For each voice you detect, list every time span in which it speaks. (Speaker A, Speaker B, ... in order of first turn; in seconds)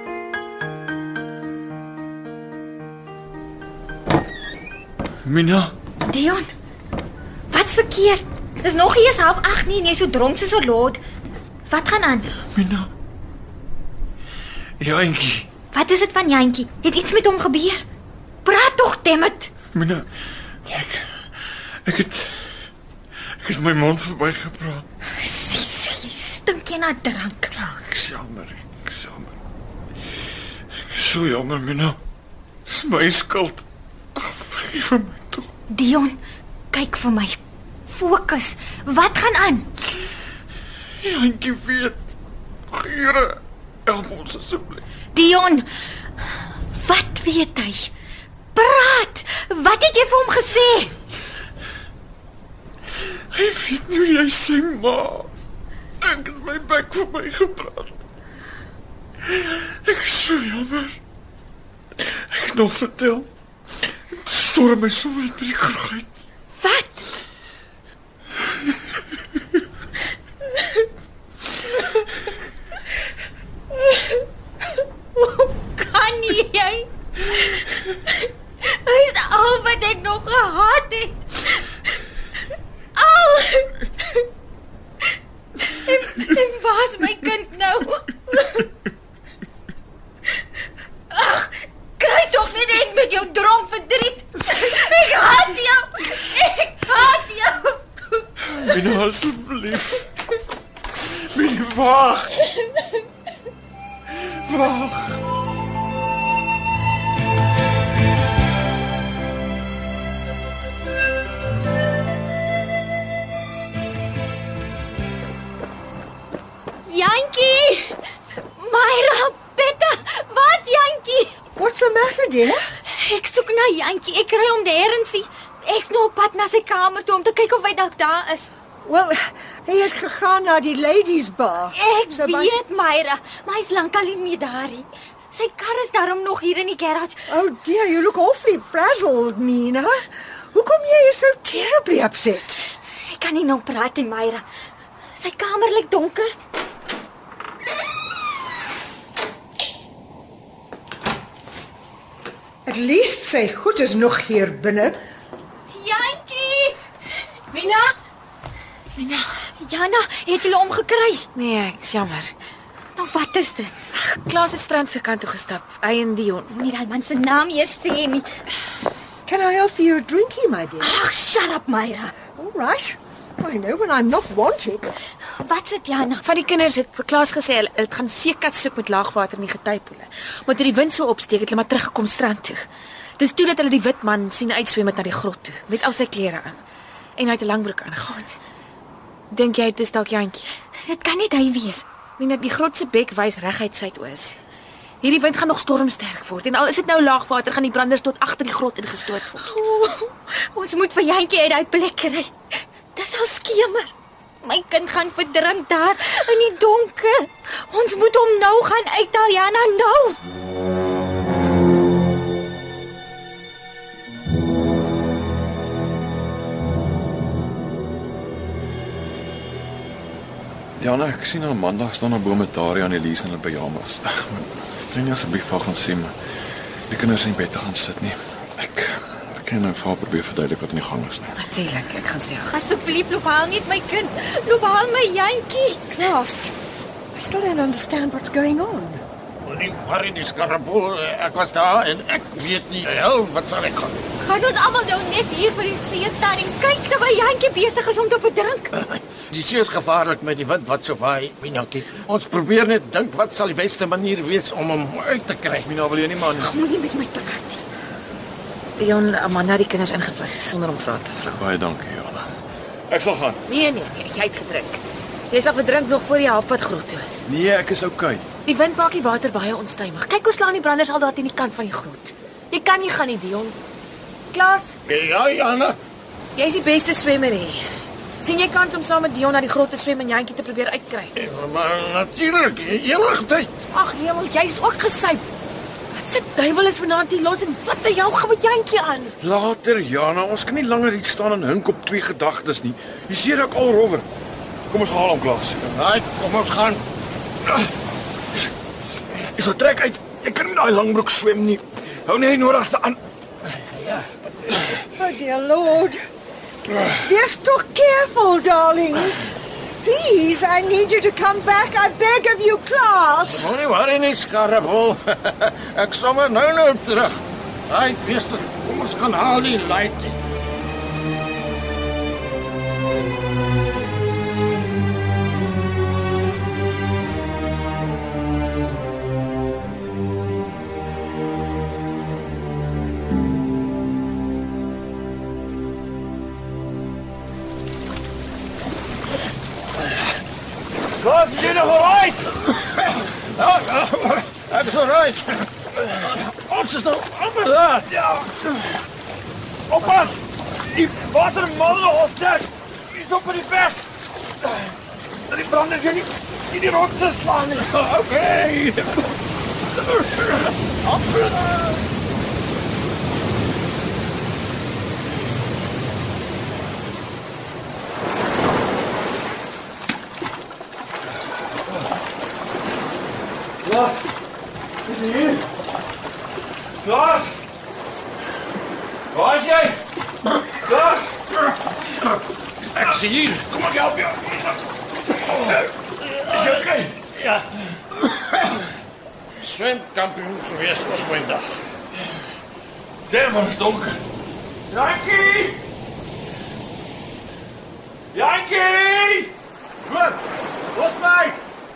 Speaker A: 5.2-5.7, 12.5-12.9, 14.8-15.5, 19.7-20.1, 20.7-21.1, 21.9-22.4, 23.4-24.9, 27.6-29.3, 30.9-32.0, 32.7-33.6, 34.2-35.5, 41.0-42.0, 42.7-44.8, 53.3-55.3, 56.0-57.9, 59.3-61.0, 62.0-63.3, 64.1-66.1, 98.5-100.0, 101.1-102.5, 104.2-105.2, 220.8-226.2, 226.9-231.3, 255.7-256.5, 261.2-262.3, 262.9-263.4, 267.3-268.2, 289.2-294.1, 294.7-295.8, 299.3-303.0, 341.0-342.1, 349.7-350.1, 350.7-353.8, 355.3-357.6, 373.6-374.0, 374.9-375.4, 376.8-377.4, 379.1-379.8, 380.6-381.1, 386.3-386.9, 393.1-394.0, 394.7-395.6, 398.1-399.3, 399.9-400.2, 400.7-401.3
Speaker B: 6.0-6.5, 7.5-11.0, 11.7-12.3, 15.7-17.8, 18.4-19.5, 25.2-27.6, 35.7-36.2, 36.7-39.7, 45.1-45.7, 46.8-47.9, 48.5-50.9, 66.6-67.1, 73.7-74.2, 75.2-81.7, 83.0-84.2, 85.6-88.7, 91.1-98.2, 116.9-118.0, 118.6-121.4, 122.9-128.5, 131.7-137.2, 143.1-144.4, 145.2-146.3, 155.7-156.8, 159.6-161.3, 163.0-163.8, 166.5-168.3, 170.8-172.1, 175.4-176.2, 190.8-191.8, 199.4-202.3, 202.9-203.9, 204.4-210.2, 232.5-236.1, 244.2-248.7, 256.3-257.6
Speaker C: 121.6-122.7, 128.8-132.6, 137.3-142.6, 152.7-155.0, 169.3-171.0, 172.3-174.9, 235.9-236.5, 237.1-239.0, 304.9-306.0, 306.9-309.2, 309.8-313.5
Speaker D: 157.5-157.9, 159.0-159.4, 161.3-162.3, 163.9-166.5, 176.2-182.6, 183.2-186.6, 187.2-188.4, 189.3-190.5, 192.2-194.4, 195.0-199.6, 231.4-232.5, 258.8-261.2, 263.5-267.2, 268.4-273.6, 274.3-274.8, 276.4-277.6, 278.2-281.1, 283.7-285.2, 285.9-289.1
Speaker E: 239.4-244.0, 248.8-255.7, 274.9-275.8, 281.2-283.5, 295.7-296.8, 313.3-320.2, 341.7-347.9, 357.6-358.9, 382.7-384.6, 385.3-385.6, 386.1-386.6, 387.2-387.4, 389.4-391.5, 394.7-395.0